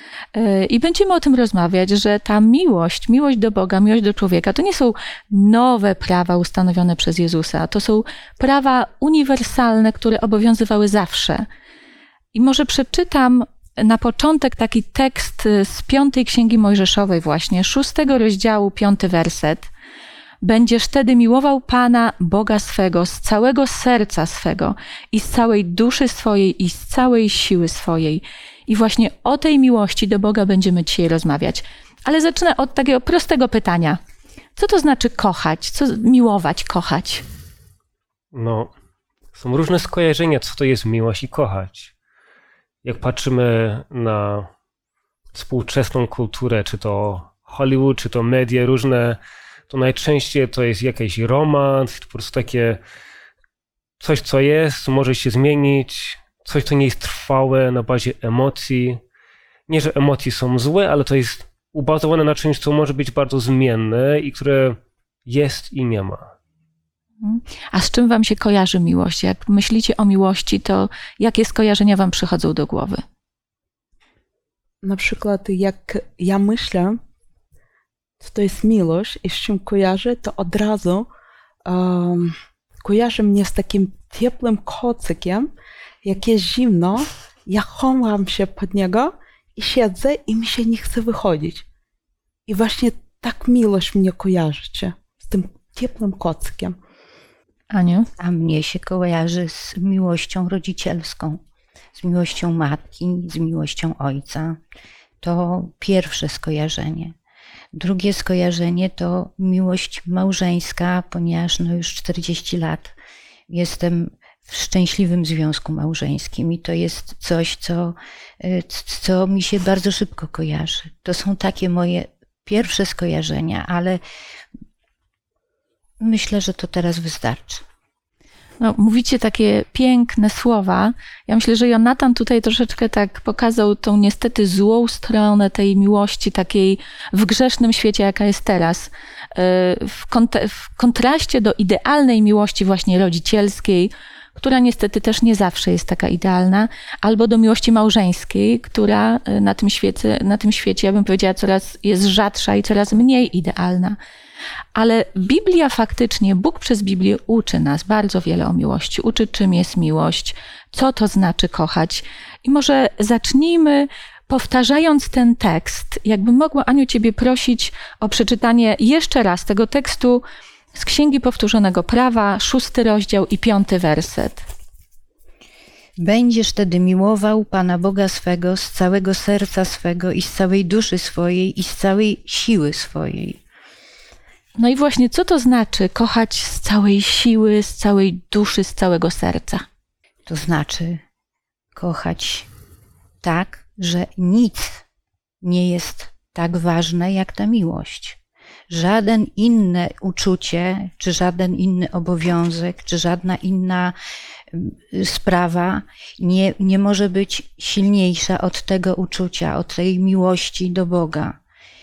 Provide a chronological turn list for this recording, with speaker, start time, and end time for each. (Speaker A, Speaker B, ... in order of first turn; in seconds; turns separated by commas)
Speaker A: 0.3-11.4, Speaker A: 12.3-19.7, Speaker A: 20.4-34.0, Speaker A: 34.5-37.2, Speaker B: 38.3-38.7, Speaker B: 39.3-41.9, Speaker B: 42.8-44.5, Speaker B: 45.3-49.2, Speaker B: 49.7-52.8, Speaker B: 54.0-59.0, Speaker B: 59.7-66.3, Speaker A: 67.2-73.0, Speaker C: 74.8-77.0, Speaker C: 78.2-81.1, Speaker C: 81.6-85.5, Speaker C: 86.0-91.6, Speaker C: 92.5-96.7, Speaker A: 97.7-98.1, Speaker D: 98.2-101.4, Speaker D: 101.9-104.6, Speaker D: 105.2-107.1, Speaker D: 107.7-112.9, Speaker D: 113.5-124.0, Speaker D: 126.0-127.6, Speaker A: 128.6-154.0, Speaker A: 154.7-174.4, Speaker D: 176.0-183.4, Speaker A: 184.6-189.6, Speaker D: 190.2-191.0, Speaker D: 191.7-192.5, Speaker D: 193.2-194.8, Speaker D: 195.4-198.2, Speaker D: 198.7-203.9, Speaker D: 204.5-211.4